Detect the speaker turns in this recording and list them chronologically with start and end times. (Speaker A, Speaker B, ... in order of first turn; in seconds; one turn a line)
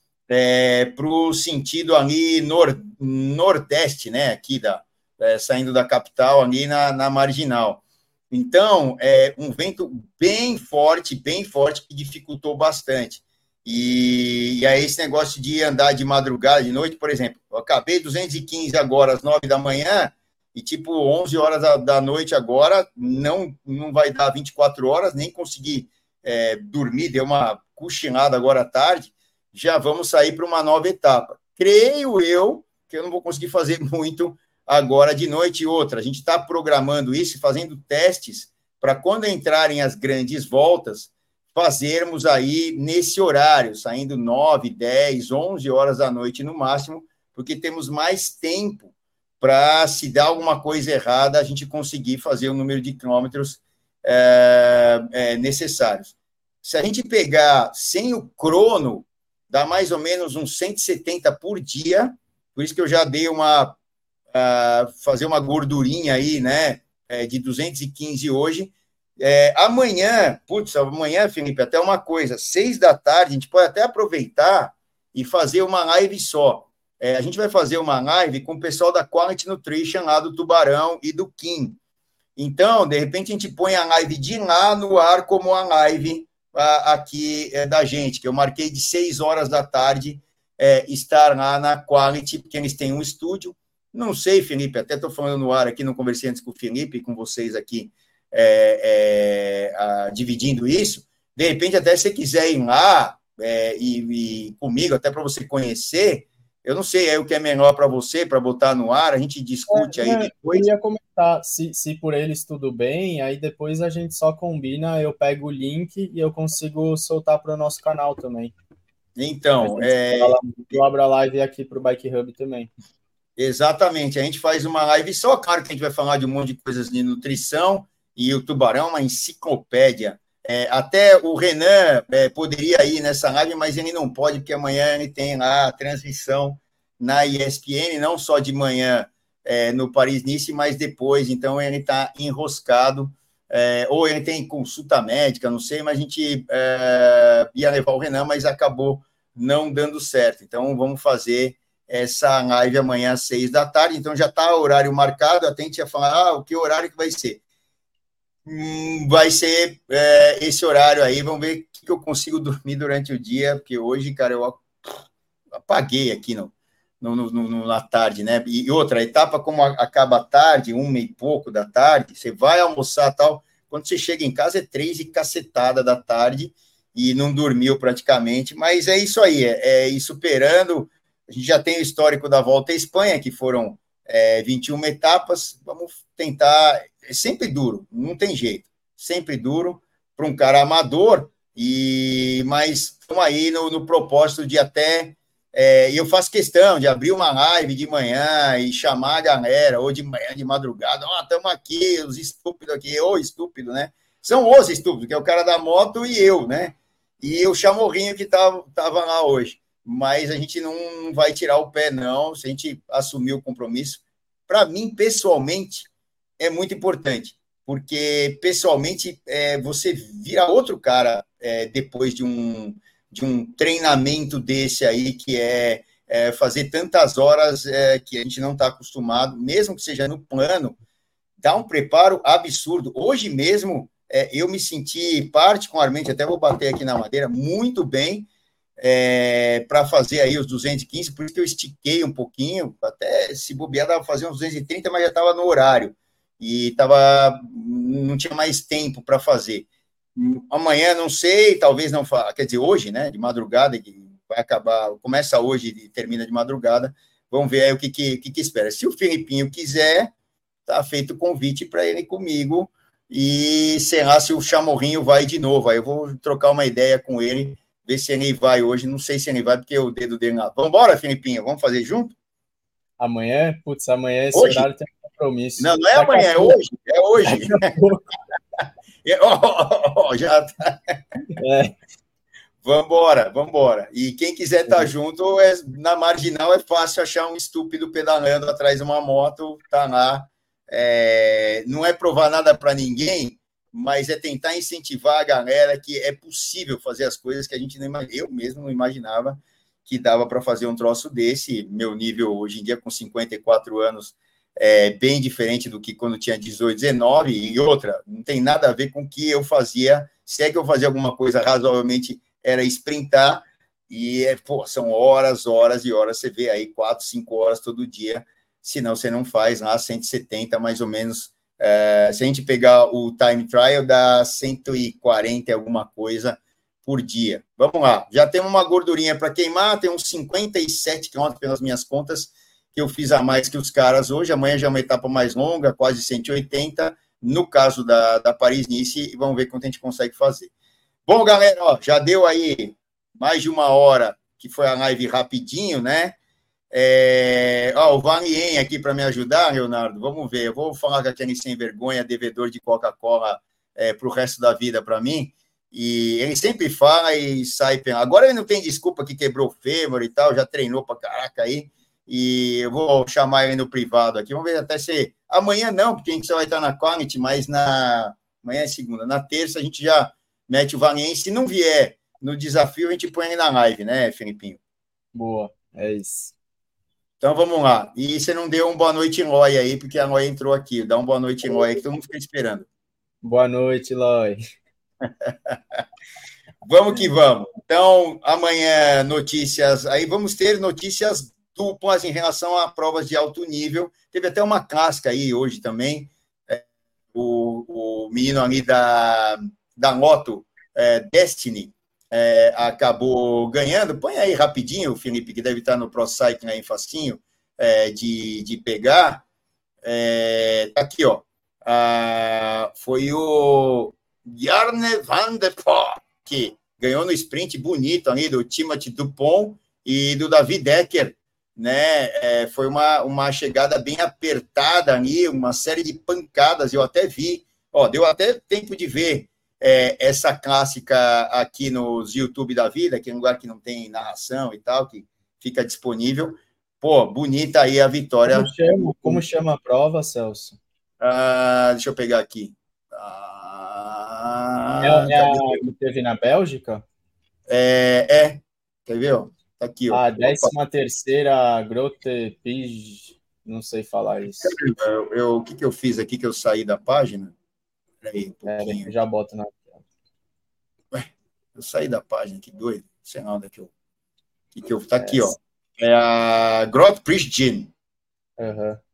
Speaker A: 0.3-63.8
Speaker A: 64.3-81.8
Speaker A: 82.3-110.7
Speaker B: 109.7-118.5
Speaker A: 119.2-120.8
Speaker B: 119.6-122.7
Speaker A: 123.4-157.4
Speaker A: 158.4-164.7
Speaker A: 165.5-230.8
Speaker A: 231.4-238.3
Speaker A: 238.8-260.1
Speaker A: 260.6-272.1
Speaker B: 273.0-276.6
Speaker A: 274.3-274.7
Speaker A: 275.6-277.7
Speaker B: 277.2-278.1
Speaker A: 279.0-281.0
Speaker B: 281.4-281.7
Speaker A: 282.6-340.5
Speaker A: 341.1-346.2
Speaker A: 346.7-374.6
Speaker B: 375.1-376.3
Speaker A: 377.2-382.7
Speaker B: 383.2-384.4
Speaker A: 385.1-385.8
Speaker A: 386.6-409.2
Speaker A: 409.8-439.2
Speaker B: 438.2-440.6
Speaker A: 441.0-445.7
Speaker B: 444.8-446.8
Speaker A: 447.5-450.5
Speaker B: 449.9-454.5
Speaker A: 454.4-457.3
Speaker A: 458.0-458.9
Speaker B: 458.5-459.8
Speaker A: 460.9-463.7
Speaker A: 464.5-467.7
Speaker B: 465.0-465.4
Speaker B: 468.4-468.8